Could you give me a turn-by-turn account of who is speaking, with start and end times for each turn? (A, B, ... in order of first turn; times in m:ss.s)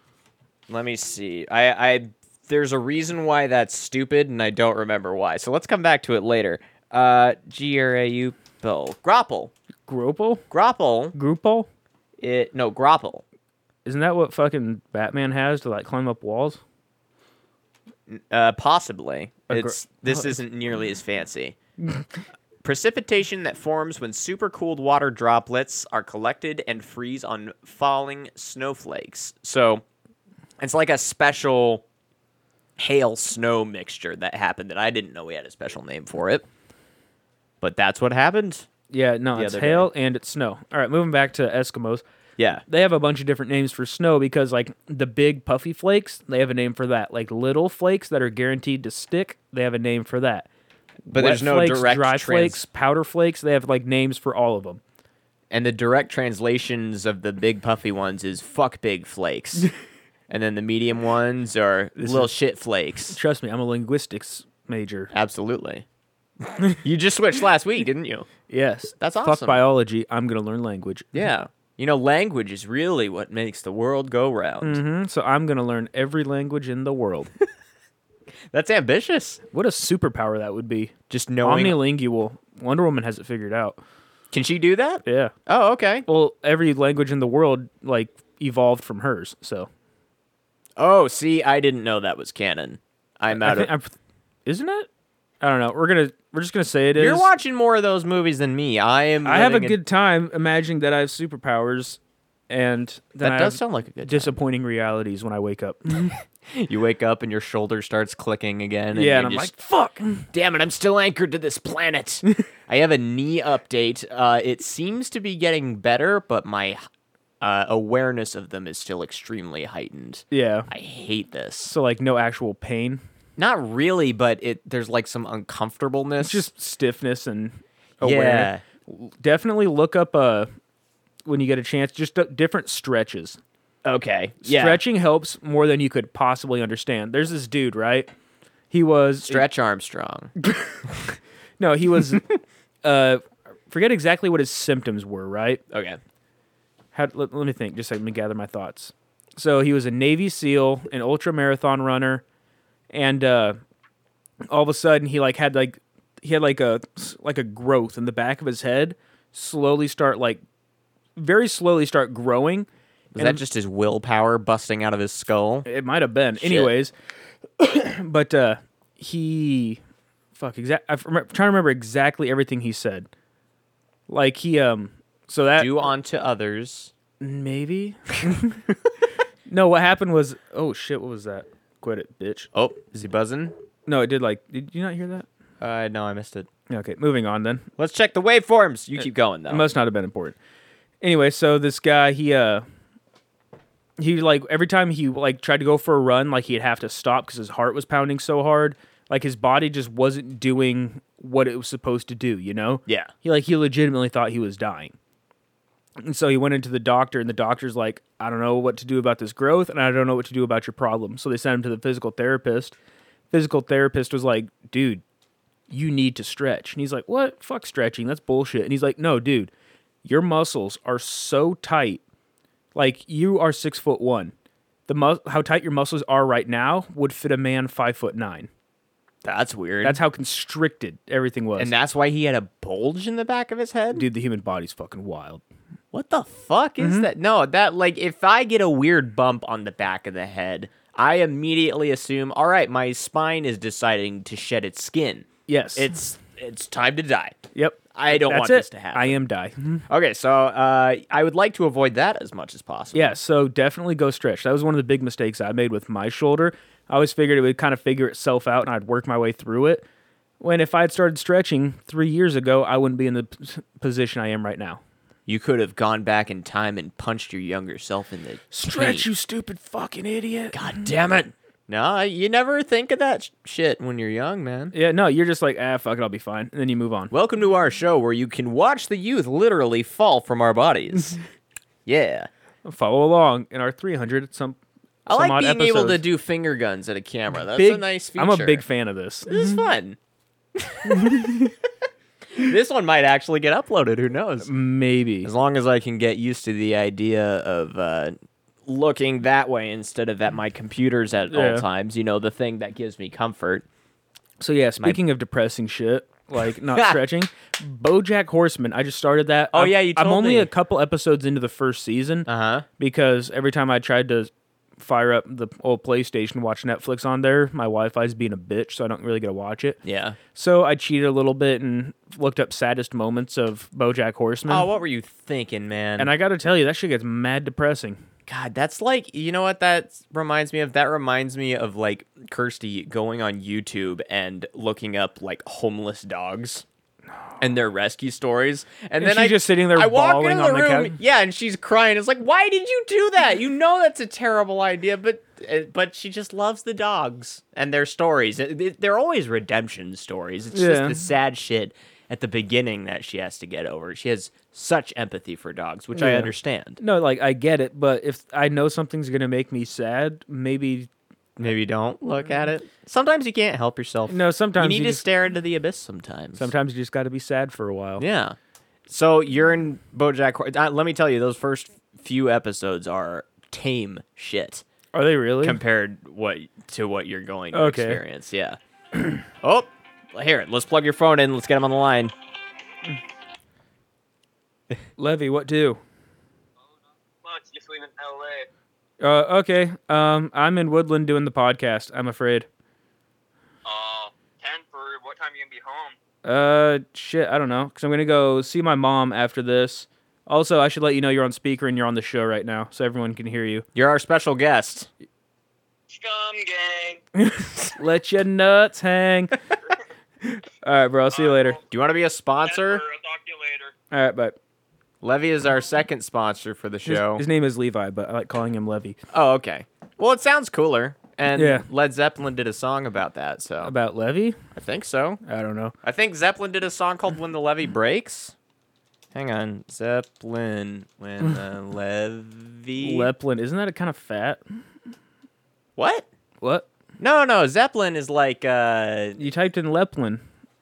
0:00.7-0:09.5 A
0:09.9-0:10.4 B
0:10.5-0:11.1 A
0:11.1-0:11.7 B
0:12.2-0:13.2 A
0:13.8-0:16.6 B
0:18.1-0:21.6 A
0:19.5-0:20.3 B
0:22.6-0:29.8 A
0:30.6-0:31.8 A
0:32.8-0:36.4 A
0:37.6-0:38.7 A
0:38.9-0:42.0 B
0:39.3-0:39.9 A
0:42.4-0:42.6 A
0:42.7-0:50.5 B
0:51.0-0:54.8 B
0:51.1-0:52.6 A
0:55.5-0:59.7 A
1:00.3-1:03.2 A
1:02.0-1:02.3 B
1:03.1-1:05.1 B
1:05.1-1:05.8 A
1:06.8-1:08.3 A
1:08.5-1:11.2 B
1:09.0-1:09.6 A
1:11.1-1:14.8 A
1:14.6-1:17.3 B
1:18.5-1:19.4 A
1:19.5-1:23.8 B
1:21.1-1:21.8 A
1:24.3-1:26.0 A
1:25.0-1:25.3 B
1:26.0-1:29.7 B
1:30.8-1:33.7 A
1:33.3-1:33.9 B
1:34.4-1:34.9 B
1:35.4-1:37.2 B
1:36.9-1:39.8 A
1:39.2-1:46.2 B
1:43.2-1:44.3 A
1:46.5-1:49.5 A
1:48.9-1:50.3 B
1:50.3-1:56.8 A
1:57.4-2:01.7 A
2:00.3-2:00.7 B
2:01.6-2:03.0 B
2:03.4-2:06.4 A
2:06.2-2:10.5 B
2:08.0-2:08.6 A
2:11.2-2:13.4 B
2:13.8-2:14.8 A
2:14.4-2:18.1 B
2:18.7-2:19.4 B
2:19.2-2:20.3 A
2:20.4-2:20.8 B
2:21.6-2:22.3 B
2:22.8-2:25.6 B
2:25.7-2:26.0 A
2:26.9-2:32.2 B
2:32.9-2:33.6 B
2:34.5-2:40.4 B
2:41.2-2:43.4 B
2:43.1-2:45.6 A
2:45.6-2:46.9 B
2:46.4-2:46.7 A
2:47.6-2:49.8 B
2:50.4-2:53.1 B
2:54.1-2:55.8 B
2:55.6-2:56.9 A
2:57.2-2:58.6 B
2:59.5-3:02.5 B
3:02.5-3:03.5 A
3:03.9-3:05.3 B
3:05.6-3:06.5 A
3:06.7-3:07.7 B
3:07.8-3:09.6 A
3:09.5-3:10.4 B
3:11.0-3:12.6 B
3:14.0-3:24.9 B
3:22.9-3:23.1 A
3:26.0-3:32.7 B
3:33.3-3:35.0 B
3:35.7-3:39.5 B
3:40.0-3:42.0 B
3:42.7-3:44.3 B
3:44.9-3:48.5 B
3:49.2-3:50.0 A
3:49.8-3:51.7 B
3:51.6-3:54.1 A
3:53.9-3:55.4 B
3:55.9-4:07.4 A
3:56.8-3:57.1 B
4:05.5-4:05.9 B
4:07.5-4:09.8 B
4:07.9-4:09.2 A
4:09.9-4:13.1 A
4:12.9-4:19.8 B
4:20.4-4:24.8 B
4:25.3-4:29.1 A
4:28.5-4:30.9 B
4:30.5-4:34.7 A
4:34.7-4:37.1 B
4:37.1-4:41.2 A
4:41.8-4:42.3 A
4:42.6-4:44.6 B
4:45.0-4:48.6 A
4:45.1-4:46.0 B
4:47.5-4:49.6 B
4:49.3-4:50.0 A
4:50.6-4:51.5 A
4:50.9-4:51.5 B
4:52.3-4:54.5 A
4:54.4-4:55.3 B
4:55.2-4:58.2 A
4:58.7-5:03.6 A
5:01.3-5:01.6 B
5:04.4-5:12.3 B
5:06.7-5:07.0 A
5:09.5-5:10.5 A
5:12.3-5:12.7 A
5:12.8-5:19.8 B
5:19.8-5:20.2 A
5:20.3-5:24.7 B
5:24.5-5:26.1 A
5:26.0-5:28.0 B
5:28.3-5:36.6 A
5:37.4-5:56.8 A
5:39.0-5:41.0 B
5:50.5-5:51.0 B
5:55.9-6:00.9 B
6:01.4-6:06.5 A
6:04.1-6:05.0 B
6:06.4-6:08.0 B
6:08.0-6:08.4 A
6:08.9-6:14.6 A
6:14.9-6:15.6 B
6:15.4-6:18.6 A
6:17.5-6:18.0 B
6:19.4-6:22.1 A
6:25.0-6:25.8 B
6:27.2-6:28.5 C
6:29.0-6:32.5 B
6:33.6-6:36.0 C
6:36.2-6:43.6 B
6:43.7-6:44.9 A
6:45.9-6:47.0 C
6:47.2-6:49.4 B
6:50.4-6:51.6 B
6:51.1-6:51.6 C
6:51.7-6:52.8 A
6:52.4-6:53.7 C
6:53.9-6:54.4 B
6:55.0-6:57.2 A
6:56.8-6:59.0 B
6:59.1-7:03.7 A
7:01.3-7:01.6 B
7:03.6-7:04.4 B
7:04.5-7:05.2 A
7:05.2-7:05.7 B
7:05.8-7:08.3 A
7:09.1-7:13.1 A
7:12.8-7:14.4 B
7:15.8-7:16.0 A
7:16.4-7:16.6 B
7:17.0-7:19.2 A
7:19.2-7:20.2 B